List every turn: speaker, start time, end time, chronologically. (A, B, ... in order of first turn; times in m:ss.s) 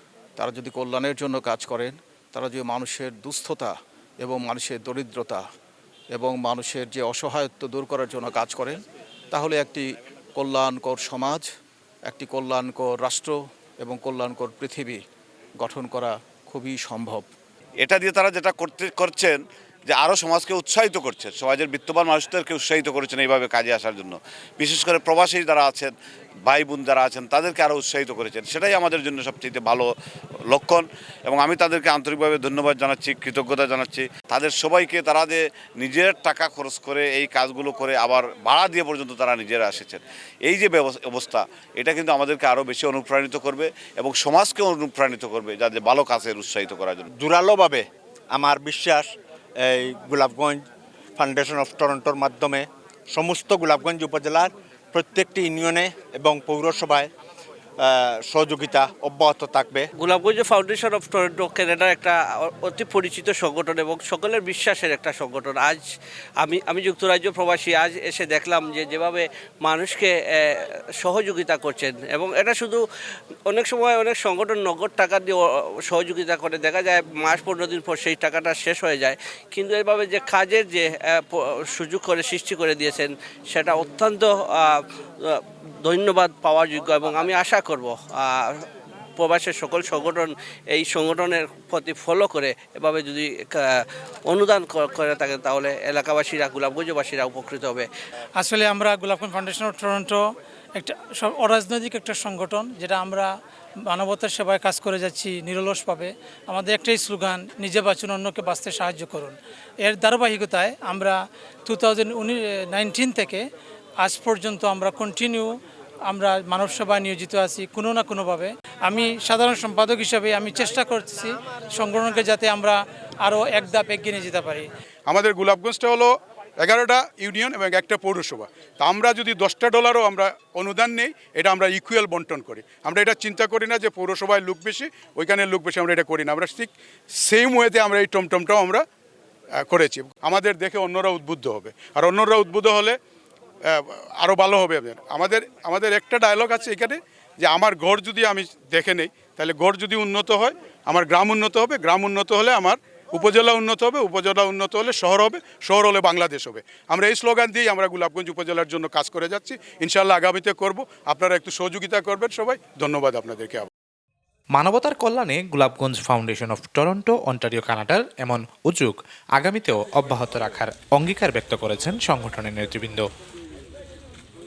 0:00.4-0:05.4 A
0:06.1-0:08.8 A
0:09.3-0:09.8 A
0:10.4-0:11.5 A
0:12.1-0:15.0 A
0:15.6-0:17.3 A
0:17.8-0:25.9 B
0:26.4-0:29.9 B
0:30.5-0:47.1 B
0:47.2-0:47.8 C
0:48.4-0:49.1 C
0:49.6-0:50.6 C
0:51.2-0:52.6 C
0:53.2-0:57.1 C
0:57.9-0:59.9 C
1:00.0-1:05.8 D
1:06.4-1:12.8 D
1:13.5-1:28.6 D
1:29.2-1:37.9 D
1:38.4-1:40.2 E
1:40.8-1:43.3 E
1:43.9-1:53.4 E
1:54.0-1:55.5 E
1:56.1-2:04.7 E
2:05.1-2:18.8 F
2:19.6-2:23.0 F
2:23.7-2:43.7 F
2:44.6-2:53.0 G